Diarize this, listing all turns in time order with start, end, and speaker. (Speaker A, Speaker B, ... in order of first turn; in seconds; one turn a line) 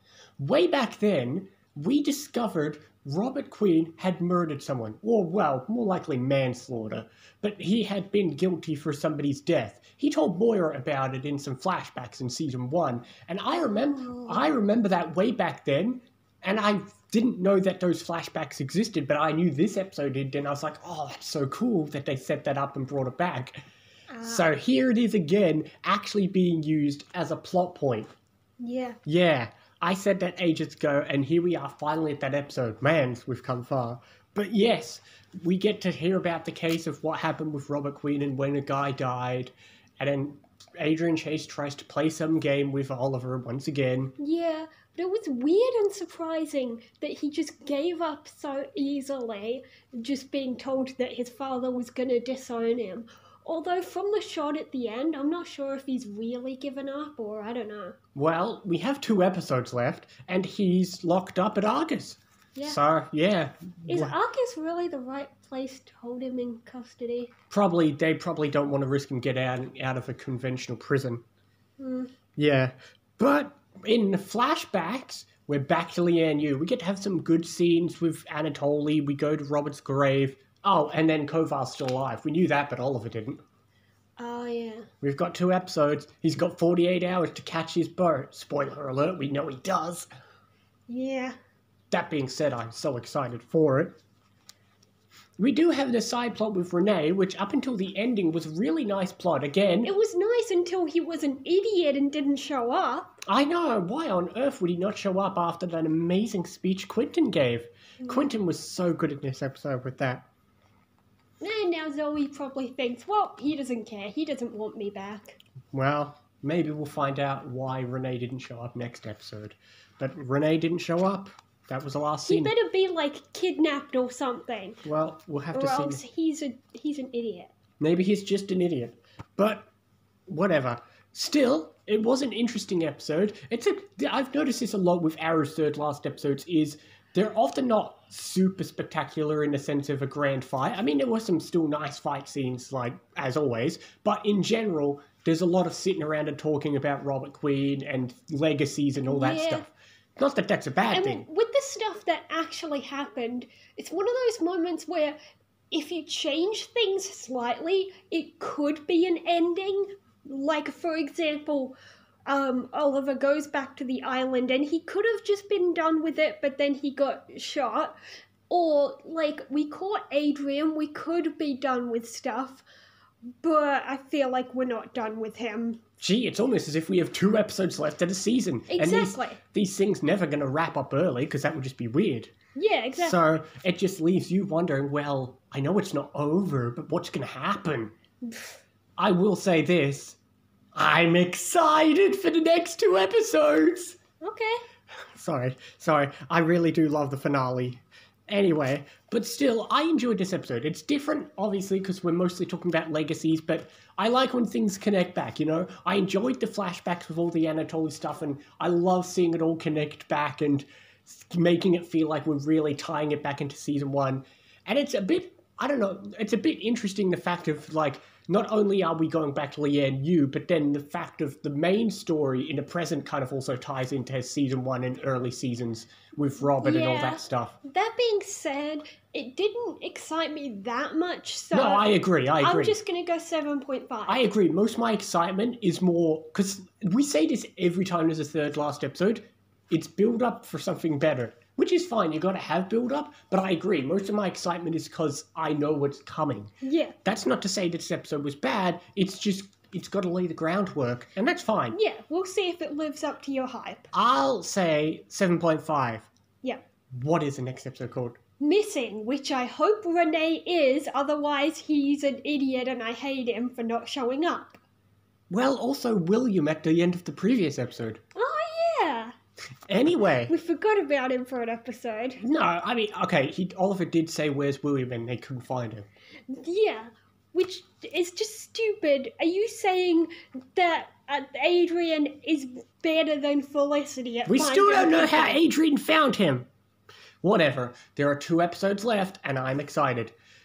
Speaker A: 0.4-23.6
Speaker B: 13.6-14.5
Speaker B: 24.1-24.5
Speaker A: 24.2-28.1
Speaker B: 28.6-29.0
Speaker A: 29.1-44.1
Speaker B: 44.2-58.0
Speaker A: 58.1-64.1
Speaker B: 63.9-67.3
Speaker A: 67.5-71.2
Speaker B: 71.8-72.1
Speaker A: 72.4-83.4
Speaker B: 84.2-84.9
Speaker A: 85.0-90.1
Speaker B: 90.9-91.3
Speaker A: 91.9-94.0
Speaker A: 95.4-99.9
Speaker B: 99.8-103.2
Speaker A: 103.3-110.3
Speaker B: 111.4-115.4
Speaker A: 115.7-122.5
Speaker B: 122.3-124.8
Speaker A: 124.8-126.0
Speaker B: 125.5-127.5
Speaker A: 127.8-129.7
Speaker A: 130.3-151.2
Speaker B: 149.1-149.7
Speaker B: 150.9-155.2
Speaker B: 155.7-168.0
Speaker B: 168.5-172.7
Speaker B: 173.4-175.8
Speaker A: 176.0-182.3
Speaker B: 178.7-179.4
Speaker B: 182.6-183.2
Speaker A: 183.0-187.9
Speaker B: 188.3-188.6
Speaker A: 189.0-190.2
Speaker A: 190.8-194.0
Speaker B: 194.2-194.6
Speaker A: 195.1-227.6
Speaker B: 226.5-234.2
Speaker A: 231.5-232.8
Speaker A: 234.1-246.5
Speaker B: 246.6-247.0
Speaker A: 247.0-251.8
Speaker B: 251.7-253.9
Speaker A: 253.9-256.1
Speaker A: 256.9-258.2
Speaker B: 258.4-264.6
Speaker A: 265.3-268.0
Speaker B: 268.1-269.1
Speaker A: 269.7-270.3
Speaker B: 270.3-272.2
Speaker A: 272.2-275.9
Speaker B: 276.3-285.4
Speaker A: 284.3-286.5
Speaker A: 287.2-290.1